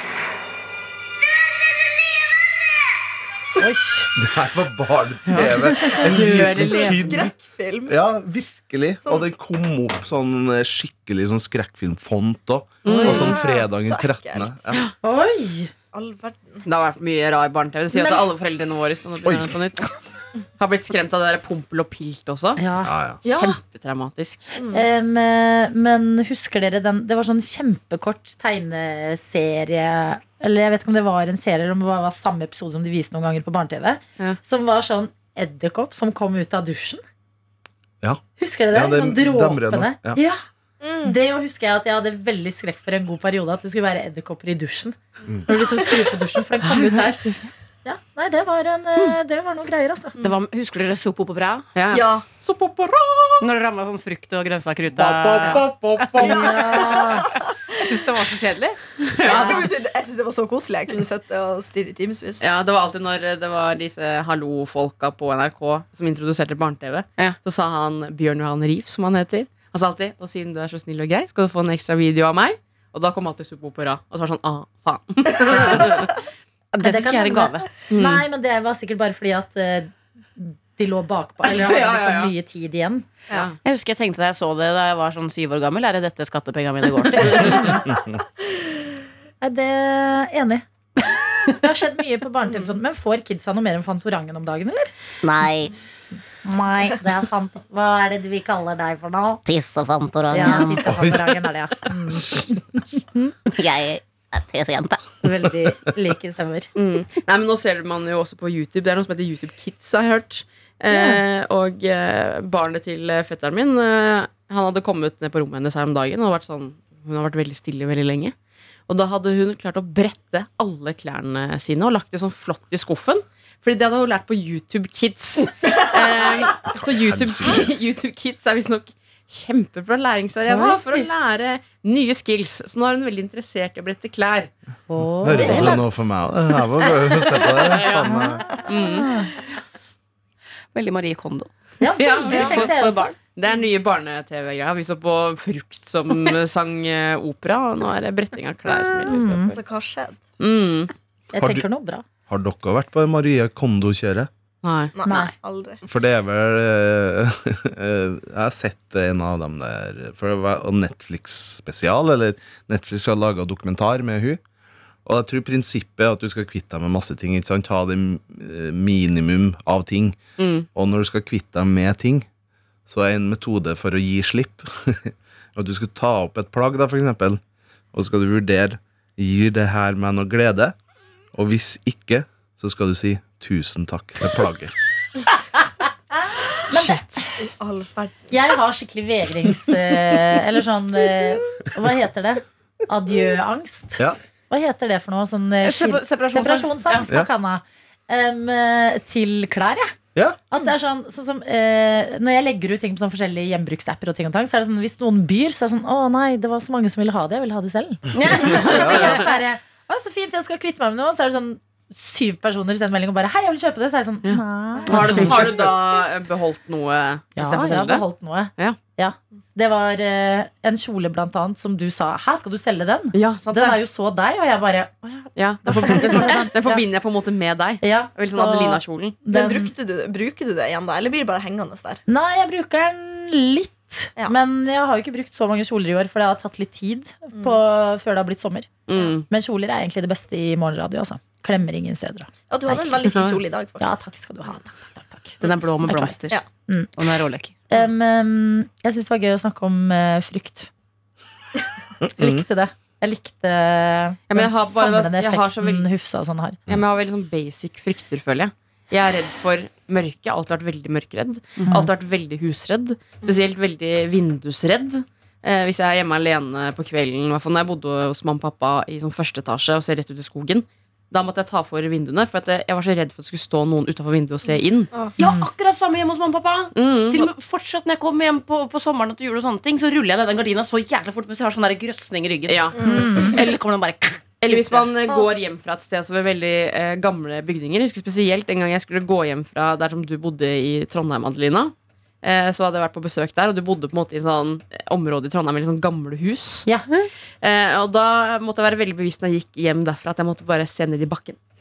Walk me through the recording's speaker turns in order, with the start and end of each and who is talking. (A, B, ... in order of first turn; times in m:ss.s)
0:03.6-0:04.1 A
0:04.2-0:07.3 B
0:05.3-0:07.3 C
0:06.4-0:08.0 D
0:07.9-0:14.8 B
0:12.8-0:13.3 C
0:12.9-0:13.3 A
0:13.0-0:14.6 D
0:15.0-0:15.7 A
0:15.9-0:16.6 D
0:16.6-0:19.9 C
0:17.9-0:18.2 A
0:19.2-0:19.5 B
0:20.6-0:22.6 C
0:22.6-0:22.9 A
0:22.8-0:23.2 B
0:23.2-0:23.6 D
0:23.3-0:24.5 C
0:24.6-0:24.8 D
0:24.7-0:37.0 A
0:38.0-0:40.2 B
0:38.4-0:40.4 A
0:40.8-0:41.2 D
0:41.0-0:50.2 A
0:46.7-0:47.5 C
0:50.2-0:51.6 E
0:51.7-0:53.4 C
0:51.9-0:52.2 D
0:53.4-0:55.6 E
0:54.9-0:56.8 C
0:56.0-0:57.3 A
0:56.2-0:57.1 D
0:57.8-0:58.8 E
0:59.0-0:59.7 C
0:59.2-1:02.4 D
0:59.3-0:59.6 A
1:02.4-1:16.2 C
1:15.4-1:15.8 D
1:16.7-1:17.7 E
1:16.8-1:23.0 A
1:17.9-1:18.2 C
1:21.4-1:22.3 C
1:23.3-1:23.6 C
1:23.6-1:27.8 E
1:27.4-1:27.8 A
1:29.4-1:30.6 A
1:31.4-1:34.9 A
1:35.2-1:35.7 E
1:36.4-1:39.4 A
1:39.4-1:40.8 E
1:40.3-1:43.3 A
1:40.7-1:41.4 B
1:42.1-1:42.4 B
1:43.5-1:45.1 E
1:45.2-1:46.7 A
1:46.7-1:58.3 C
1:50.9-1:51.2 A
1:58.9-2:14.5 C
2:05.7-2:06.7 D
2:07.0-2:07.7 B
2:10.5-2:11.1 A
2:14.9-2:15.8 A
2:15.2-2:18.6 B
2:15.4-2:15.8 E
2:17.4-2:19.1 C
2:18.0-2:19.3 A
2:20.7-2:21.5 E
2:21.8-2:23.1 A
2:22.0-2:22.7 C
2:22.2-2:23.2 E
2:22.3-2:22.6 D
2:23.3-2:29.6 C
2:28.7-2:29.6 A
2:29.5-2:30.2 D
2:30.4-2:30.9 C
2:31.3-2:32.0 A
2:31.4-2:31.6 B
2:32.3-2:34.3 B
2:34.6-2:34.9 C
2:34.9-2:35.8 D
2:35.0-2:35.3 A
2:35.8-2:44.4 B
2:45.0-2:50.2 B
2:50.4-2:50.7 C
2:50.7-2:52.3 B
2:52.9-2:57.4 B
2:57.9-3:00.7 B
3:01.3-3:04.7 B
3:06.5-3:07.4 A
3:07.5-3:08.3 D
3:08.3-3:20.0 A
3:15.6-3:17.1 E
3:20.1-3:20.4 B
3:20.5-3:35.6 A
3:28.1-3:29.4 E
3:28.7-3:29.1 B
3:28.8-3:29.1 C
3:34.2-3:38.0 C
3:34.9-3:35.4 E
3:37.4-3:46.8 A
3:43.1-3:43.8 C
3:45.4-3:49.2 C
3:45.7-3:46.4 D
3:47.8-3:49.7 A
3:49.3-3:52.0 D
3:52.1-3:58.7 A
3:58.9-3:59.2 C
3:59.3-4:06.2 A
4:02.5-4:04.1 D
4:03.1-4:03.4 C
4:05.4-4:06.4 E
4:06.7-4:06.9 A
4:07.0-4:07.6 E
4:07.7-4:10.7 A
4:12.0-4:12.4 B
4:12.2-4:16.6 A
4:14.3-4:15.9 C
4:16.7-4:34.9 C
4:34.9-4:35.2 D
4:35.2-4:44.9 E
4:35.2-4:35.4 A
4:36.7-4:37.3 C
4:42.5-4:43.6 C
4:42.8-4:43.3 D
4:42.8-4:43.3 A
4:44.4-4:56.7 C
4:57.4-5:01.4 C